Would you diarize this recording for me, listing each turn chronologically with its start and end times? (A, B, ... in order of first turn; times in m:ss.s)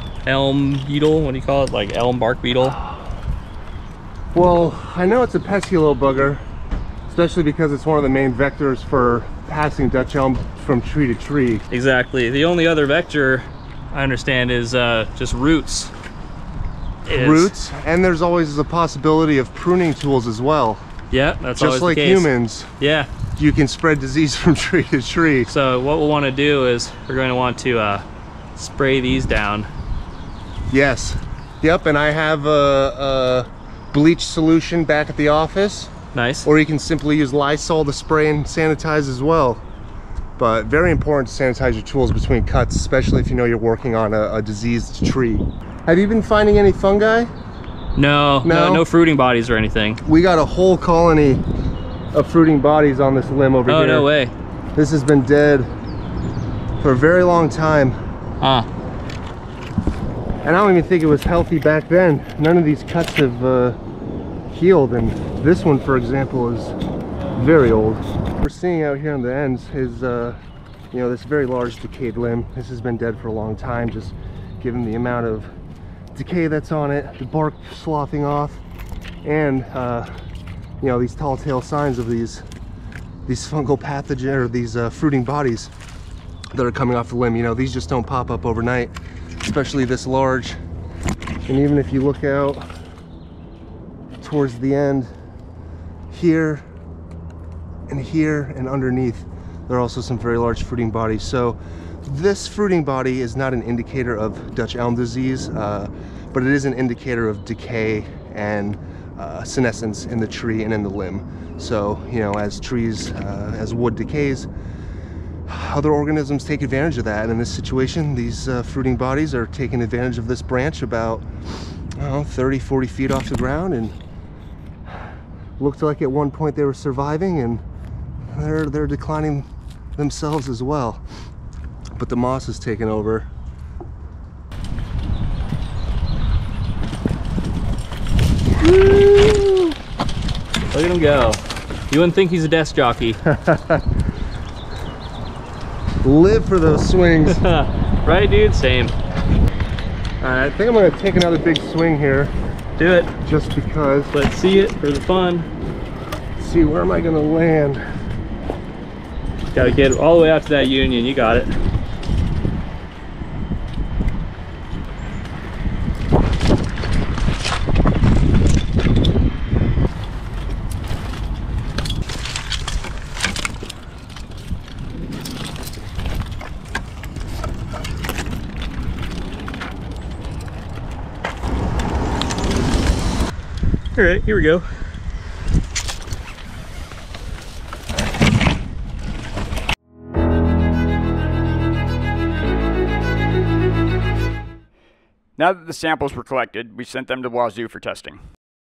0:00.2-0:02.8 A
0:04.3-0:06.4 B
0:07.1-0:11.6 B
0:11.7-0:15.9 A
0:17.1-0:20.8 B
0:17.1-0:17.5 A
0:21.1-0:23.1 A
0:21.6-0:22.7 B
0:23.4-0:25.5 B
0:25.4-0:28.0 A
0:28.6-0:29.7 A
0:30.7-0:35.9 B
0:36.1-0:36.5 A
0:36.4-0:39.6 B
0:40.4-0:47.3 B
0:48.0-0:50.0 A
0:48.4-0:48.8 B
0:50.0-0:51.4 B
0:52.1-0:54.1 B
0:53.7-0:54.3 A
0:54.7-0:55.7 B
0:56.8-0:58.0 B
0:58.4-0:58.7 A
1:00.4-1:03.8 B
1:04.5-1:06.8 B
1:07.3-1:10.4 B
1:10.9-1:15.5 B
1:16.1-1:18.6 B
1:19.2-1:20.2 B
1:20.8-1:22.4 B
1:23.2-1:25.7 B
1:26.5-1:28.9 B
1:29.4-1:30.6 B
1:31.4-1:32.7 B
1:34.2-1:35.1 B
1:36.1-1:36.6 B
1:37.9-1:54.5 B
1:55.5-2:01.2 B
2:02.0-2:04.0 B
2:05.6-2:07.6 B
2:08.3-2:11.0 B
2:12.0-2:13.3 B
2:18.5-2:19.7 B
2:20.7-2:23.2 A
2:23.2-2:23.8 B
2:26.0-2:27.4 B
2:27.3-2:28.9 A
2:30.2-2:32.3 B
2:32.8-2:33.1 A
2:33.2-2:34.1 B
2:34.1-2:35.5 A
2:36.4-2:37.8 B
2:39.5-2:41.5 A
3:03.9-3:04.7 A
3:15.4-3:18.2 C